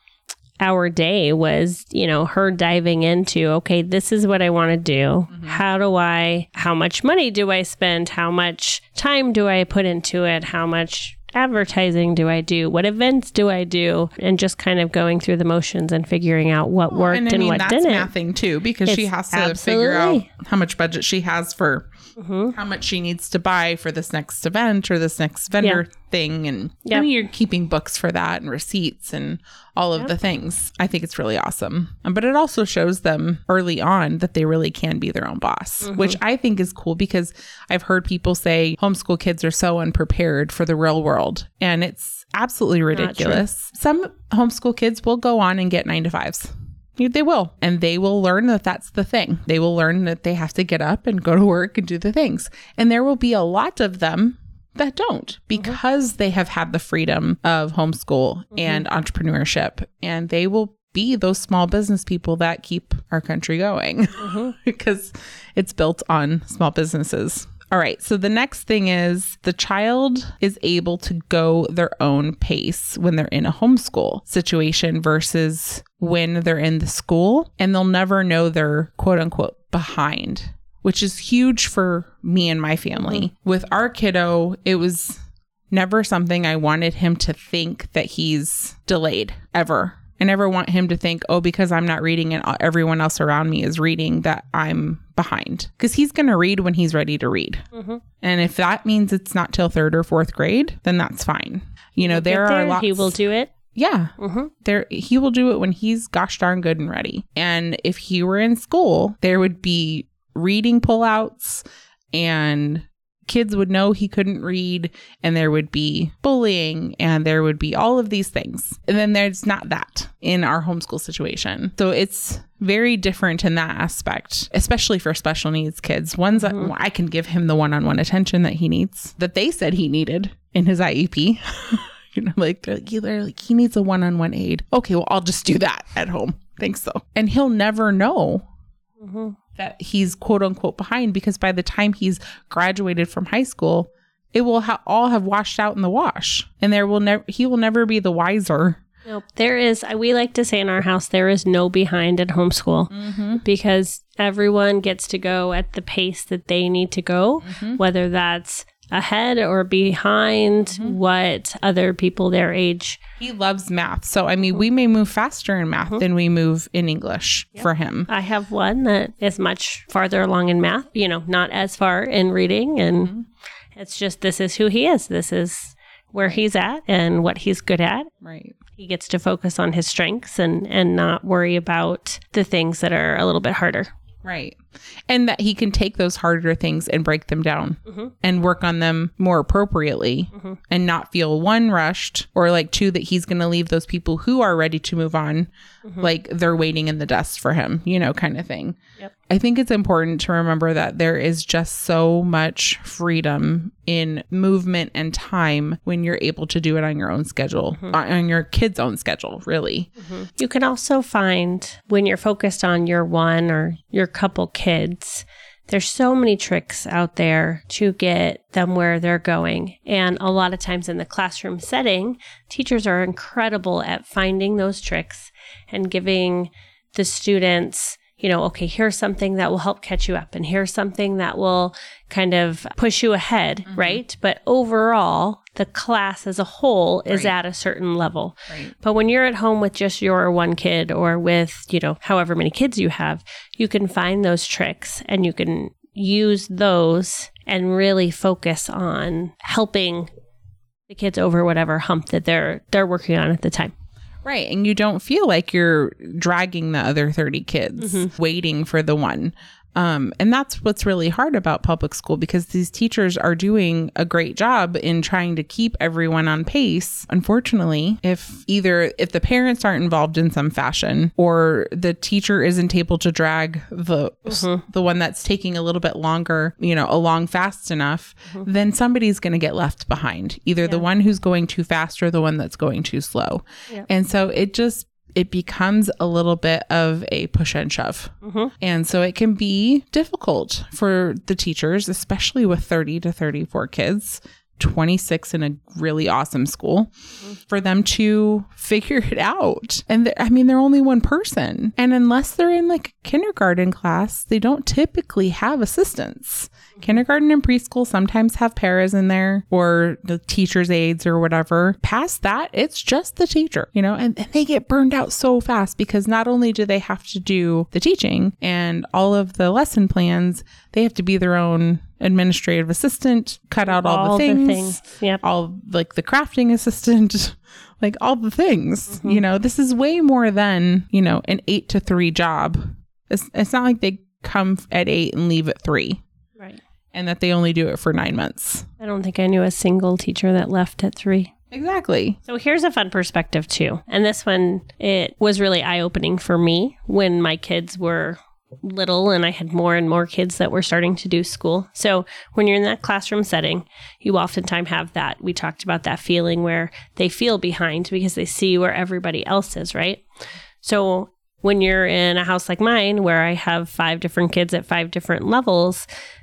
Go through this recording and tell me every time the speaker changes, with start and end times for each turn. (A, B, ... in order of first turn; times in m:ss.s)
0:00.6-0:18.1 A
0:05.3-0:05.6 B
0:16.9-0:21.9 B
0:18.9-0:20.3 A
0:22.2-0:22.6 A
0:22.5-1:37.6 B
0:35.8-0:36.2 A
0:42.9-0:43.4 A
0:58.6-0:58.8 A
1:04.2-1:04.6 A
1:37.7-1:38.0 A
1:38.2-1:43.2 B
1:42.1-1:43.5 A
1:43.8-2:18.5 B
1:44.2-1:44.5 A
2:06.4-2:06.7 A
2:19.0-2:19.4 A
2:19.6-2:28.8 B
2:29.1-2:43.0 A
2:32.9-2:33.4 B
2:37.4-2:37.8 B
2:43.2-2:48.1 B
2:47.6-2:53.1 A
2:53.0-2:53.3 B
2:53.8-2:58.1 A
2:58.2-2:58.6 B
2:58.8-3:03.9 A
3:04.2-3:29.9 B
3:30.0-4:10.1 A
3:53.7-3:54.0 B
3:57.1-3:57.3 B
4:10.9-4:13.7 A
4:14.2-5:36.0 B
4:17.8-4:18.1 A
4:34.3-4:34.6 A
4:48.2-4:48.5 A
5:23.7-5:25.2 A
5:28.9-5:29.2 A
5:36.9-5:38.7 B
5:38.8-5:41.3 A
5:41.5-5:42.2 B
5:42.2-6:00.0 A
6:00.6-6:05.9 A